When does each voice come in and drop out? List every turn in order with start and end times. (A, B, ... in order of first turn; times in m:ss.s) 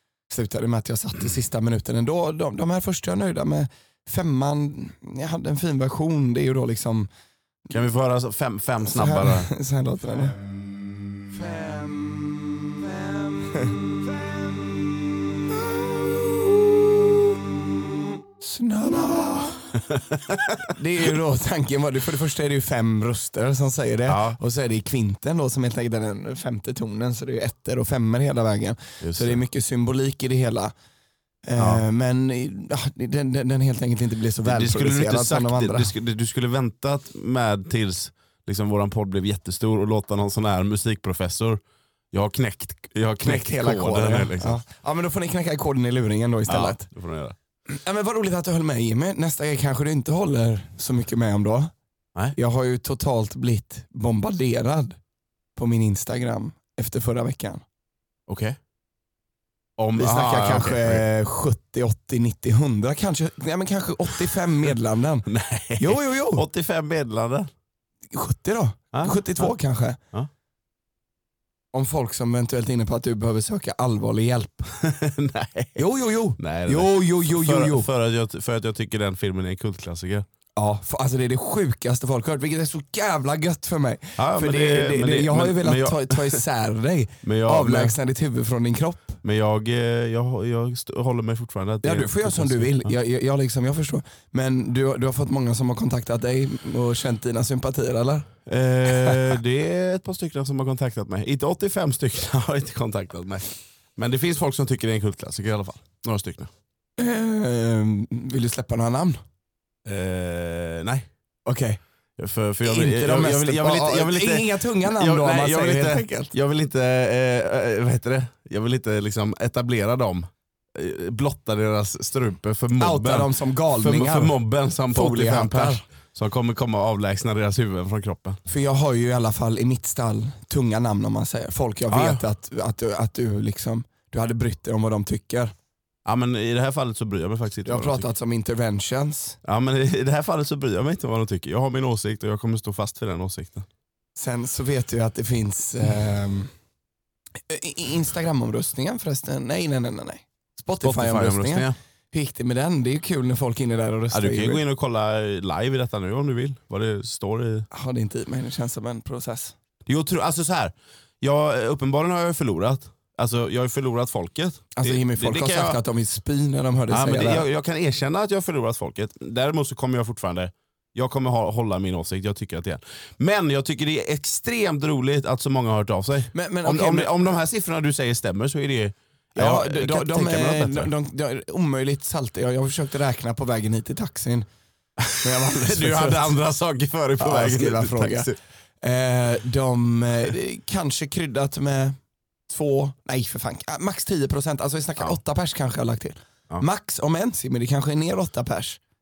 0:00.3-0:07.1 A
0:07.7-0:09.5 B
0:08.8-0:10.4 A
0:11.3-0:14.7 A
0:15.7-0:16.2 A
0:18.4-0:19.7 A
0:19.9-0:20.7 B
0:20.6-0:30.7 A
0:24.1-0:24.4 B
0:29.0-0:29.4 B
0:31.5-0:35.9 A
0:31.6-0:31.8 B
0:34.4-0:41.6 B
0:42.1-0:44.6 B
0:43.2-0:46.8 A
0:46.5-0:47.4 B
0:47.7-0:51.7 A
0:52.4-0:55.0 A
0:55.6-0:57.6 A
0:58.3-0:58.6 B
0:59.8-1:01.0 B
1:00.0-1:05.3 A
1:05.3-1:07.5 B
1:05.8-1:06.5 A
1:08.1-1:10.0 A
1:08.9-1:09.5 B
1:11.7-1:14.7 A
1:14.7-1:15.8 B
1:15.8-1:17.9 A
1:16.4-1:20.3 B
1:20.6-1:29.2 A
1:24.2-1:26.4 B
1:27.2-1:28.0 B
1:29.2-1:32.9 B
1:31.8-1:38.3 A
1:38.5-1:46.5 B
1:38.8-1:39.4 A
1:47.0-1:49.2 A
1:49.9-1:51.1 B
1:51.5-1:51.8 A
1:52.2-2:08.4 B
1:52.6-1:56.3 A
2:02.8-2:04.4 A
2:04.9-2:05.8 A
2:08.5-2:15.5 A
2:11.9-2:12.2 B
2:16.0-2:18.1 B
2:17.6-2:19.4 A
2:19.4-2:23.7 B
2:24.2-2:26.5 A
2:27.5-2:34.6 A
2:30.8-2:31.8 B
2:34.1-2:37.7 B
2:37.7-2:39.6 A
2:39.9-2:45.8 B
2:44.8-2:47.4 A
2:46.9-3:00.9 B
2:56.3-2:57.1 A
2:59.4-3:04.5 A
3:05.0-3:08.4 B
3:05.2-3:06.3 A
3:07.2-3:08.3 A
3:08.8-3:18.8 A